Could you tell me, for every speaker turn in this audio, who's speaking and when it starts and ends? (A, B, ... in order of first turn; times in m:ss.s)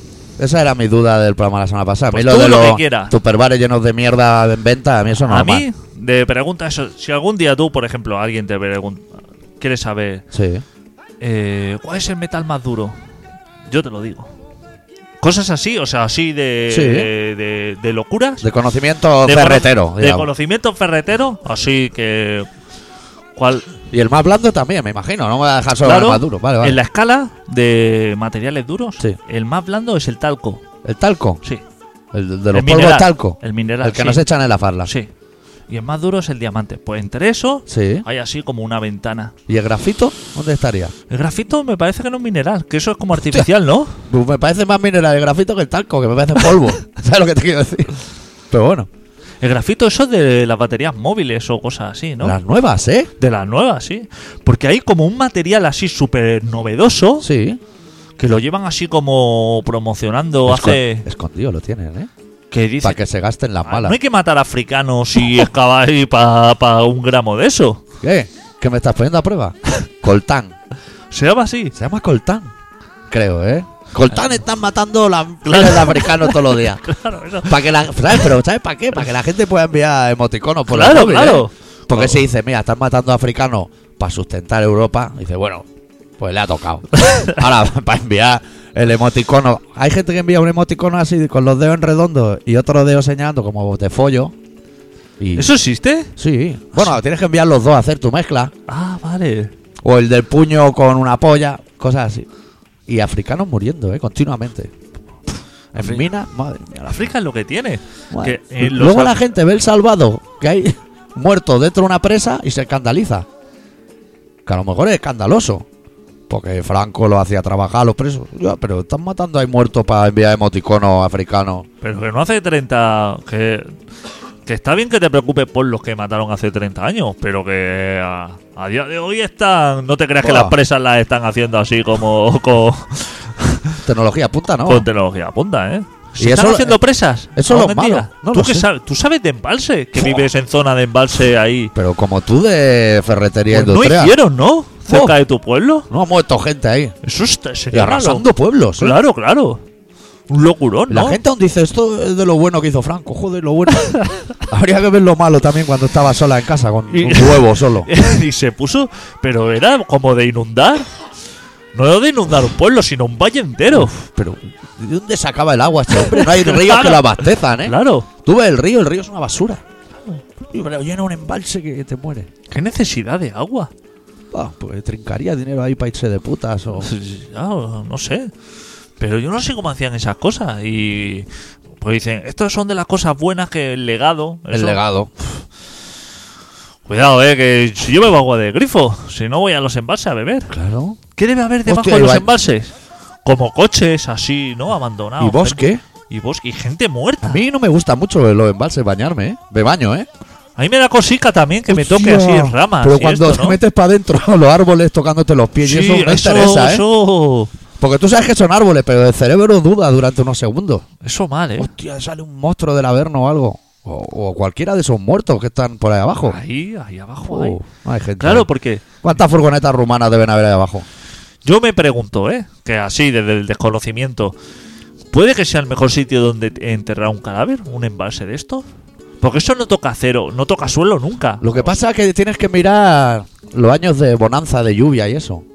0:00.4-0:05.6 A
0:02.1-0:03.2 B
0:05.3-0:09.1 B
0:09.6-0:10.2 B
0:10.3-0:10.6 A
0:11.2-0:13.0 B
0:13.7-0:14.3 B
0:15.2-0:18.5 B
0:16.7-0:17.1 A
0:18.4-0:20.3 A
0:19.2-0:22.5 B
0:23.4-0:23.7 B
0:23.9-0:26.8 A
0:25.8-0:30.6 B
0:30.8-0:31.4 A
0:32.1-0:34.9 A
0:32.5-0:34.2 B
0:34.8-0:35.1 B
0:35.7-0:39.3 B
0:37.7-0:38.1 A
0:39.5-0:40.9 A
0:41.1-0:44.0 B
0:43.2-0:43.5 A
0:44.1-0:48.9 A
0:49.4-0:52.4 B
0:52.2-0:53.1 A
0:53.2-0:57.3 B
0:57.2-0:57.6 A
0:58.2-1:01.0 B
1:00.5-1:02.1 A
1:02.5-1:03.0 B
1:02.8-1:04.0 A
1:03.6-1:07.8 B
1:08.0-1:10.6 A
1:11.1-1:11.7 B
1:11.7-1:12.5 A
1:13.1-1:16.9 A
1:15.5-1:17.6 B
1:17.4-1:25.6 A
1:20.7-1:22.2 B
1:26.2-1:34.4 A
1:27.0-1:27.3 B
1:35.2-1:35.5 A
1:35.4-1:36.1 B
1:36.2-1:38.5 A
1:38.7-1:39.5 B
1:39.8-1:42.3 A
1:42.9-1:44.7 A
1:45.7-1:47.1 A
1:45.8-1:46.1 B
1:46.9-1:49.2 B
1:48.1-1:53.3 A
1:54.5-1:55.7 A
1:56.3-2:01.7 A
2:01.8-2:03.8 B
2:04.5-2:13.8 B
2:10.2-2:10.6 A
2:13.8-2:14.9 A
2:14.7-2:21.7 B
2:16.2-2:16.8 A
2:17.3-2:18.7 A
2:20.0-2:20.2 A
2:21.8-2:24.2 A
2:23.5-2:25.9 B
2:24.9-2:25.2 A
2:25.9-2:27.0 A
2:27.0-2:28.3 B
2:27.7-2:29.0 A
2:28.8-2:29.6 B
2:30.3-2:31.2 B
2:30.9-2:37.9 A
2:36.9-2:40.9 B
2:41.7-2:43.9 B
2:43.7-2:49.6 A
2:45.9-2:48.1 B
2:50.5-2:52.3 A
2:52.5-2:53.7 B
2:54.3-2:56.9 A
2:56.8-2:58.3 B
2:59.0-3:04.8 B
3:04.5-3:05.1 A
3:06.9-3:10.5 B
3:10.5-3:11.0 A
3:11.2-3:12.7 B
3:11.7-3:12.3 A
3:13.2-3:17.4 B
3:15.2-3:15.8 A
3:17.2-3:20.1 A
3:20.6-3:23.6 B
3:21.7-3:26.8 A
3:25.6-3:27.5 B
3:27.8-3:30.8 A
3:31.0-3:31.7 B
3:31.6-3:36.4 A
3:36.2-3:37.6 B
3:37.2-3:38.5 A
3:38.2-3:39.0 B
3:39.0-3:40.9 A
3:41.4-3:44.4 B
3:45.1-3:48.7 B
3:49.2-3:51.7 B
3:51.4-3:55.4 A